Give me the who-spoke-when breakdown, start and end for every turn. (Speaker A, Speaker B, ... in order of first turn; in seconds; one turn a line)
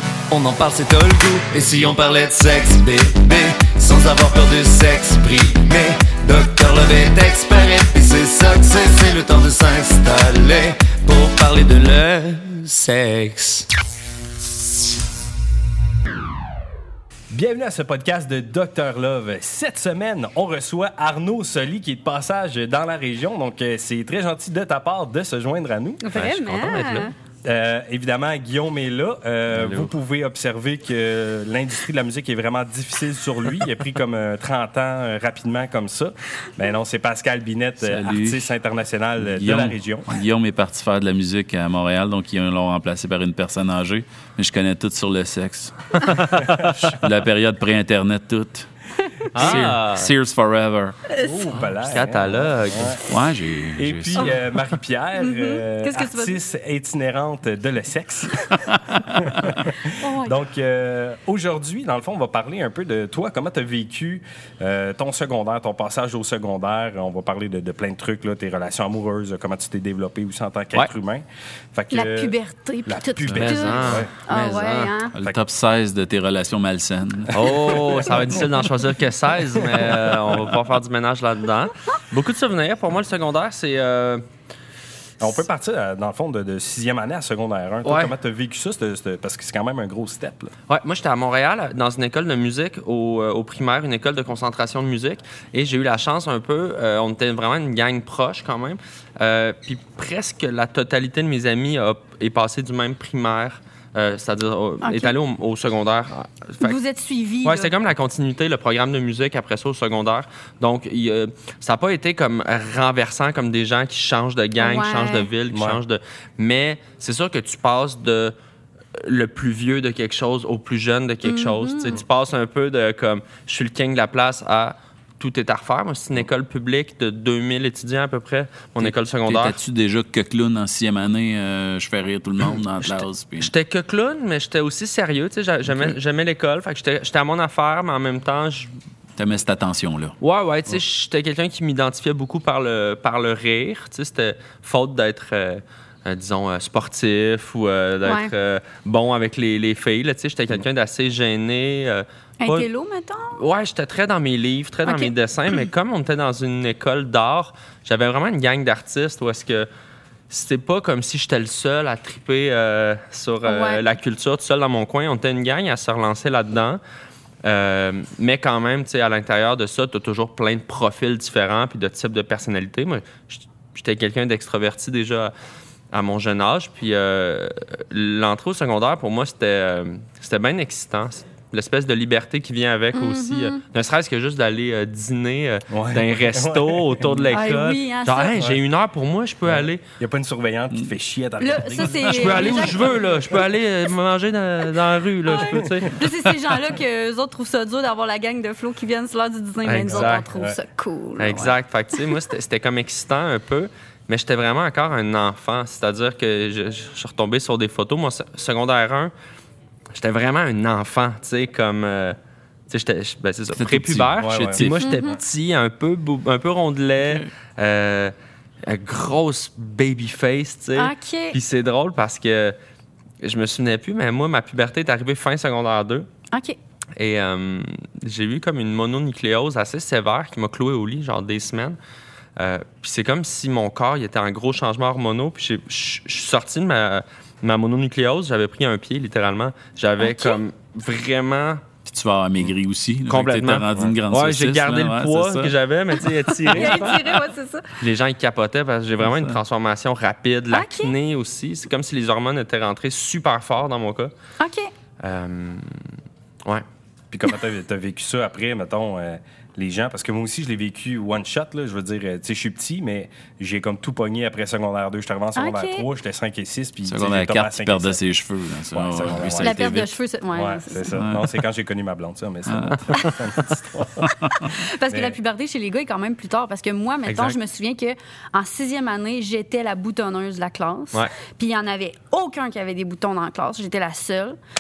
Speaker A: 0.3-13.7
Speaker B: 17.3-26.0
Speaker C: 26.0-27.1
Speaker D: 26.1-27.1
Speaker B: 27.4-40.1
Speaker E: 29.5-29.9
Speaker E: 37.8-38.5
Speaker E: 39.3-48.7
Speaker D: 46.0-46.9
Speaker D: 49.3-50.1
Speaker E: 49.3-51.0
Speaker C: 51.1-51.5
Speaker B: 51.2-53.0
Speaker D: 51.9-53.0
Speaker E: 53.1-54.4
Speaker B: 53.8-72.3
Speaker C: 55.2-56.4
Speaker C: 60.0-60.4
Speaker C: 71.9-75.1
Speaker B: 72.9-74.1
Speaker D: 73.4-74.9
Speaker E: 75.2-77.5
Speaker B: 77.3-78.3
Speaker D: 77.3-84.2
Speaker B: 79.8-80.2
Speaker B: 85.2-90.5
Speaker D: 87.8-88.1
Speaker D: 90.7-106.8
Speaker C: 104.8-105.1
Speaker C: 106.6-107.7
Speaker D: 107.4-118.3
Speaker C: 114.6-115.3
Speaker B: 115.5-115.8
Speaker D: 119.0-129.6
Speaker C: 121.2-122.0
Speaker E: 128.8-133.5
Speaker D: 132.8-138.7
Speaker E: 135.7-136.0
Speaker E: 139.2-140.2
Speaker D: 140.2-152.7
Speaker C: 148.0-148.3
Speaker C: 152.4-153.4
Speaker D: 153.4-159.7
Speaker C: 154.8-155.1
Speaker D: 160.3-166.8
Speaker C: 163.4-163.8
Speaker D: 167.4-175.3
Speaker D: 175.9-189.8
Speaker C: 182.9-183.6
Speaker B: 185.7-187.3
Speaker C: 187.3-188.4
Speaker B: 189.5-193.1
Speaker C: 191.4-193.0
Speaker D: 192.1-196.0
Speaker C: 195.3-202.1
Speaker B: 195.3-195.6
Speaker D: 199.7-200.3
Speaker B: 199.9-200.6
Speaker D: 201.2-209.1
Speaker D: 209.9-212.2
Speaker D: 212.7-222.6
Speaker E: 213.5-214.8
Speaker B: 214.2-214.7
Speaker C: 214.8-215.2
Speaker E: 217.0-217.3
Speaker C: 220.8-221.4
Speaker D: 223.2-226.1
Speaker C: 226.3-226.6
Speaker D: 227.0-231.8
Speaker D: 232.4-241.7
Speaker C: 240.0-240.4
Speaker E: 241.8-245.5
Speaker D: 243.1-247.2
Speaker C: 246.5-247.7
Speaker D: 247.8-254.1
Speaker E: 249.0-249.4
Speaker C: 250.5-250.9
Speaker C: 254.4-254.7
Speaker D: 255.0-255.8
Speaker B: 257.1-268.0
Speaker C: 265.4-265.9
Speaker E: 266.9-270.0
Speaker B: 268.7-269.6
Speaker C: 269.4-270.9
Speaker B: 270.3-274.1
Speaker E: 270.9-271.2
Speaker E: 272.5-272.8
Speaker C: 274.1-284.4
Speaker B: 274.9-275.2
Speaker D: 277.1-277.4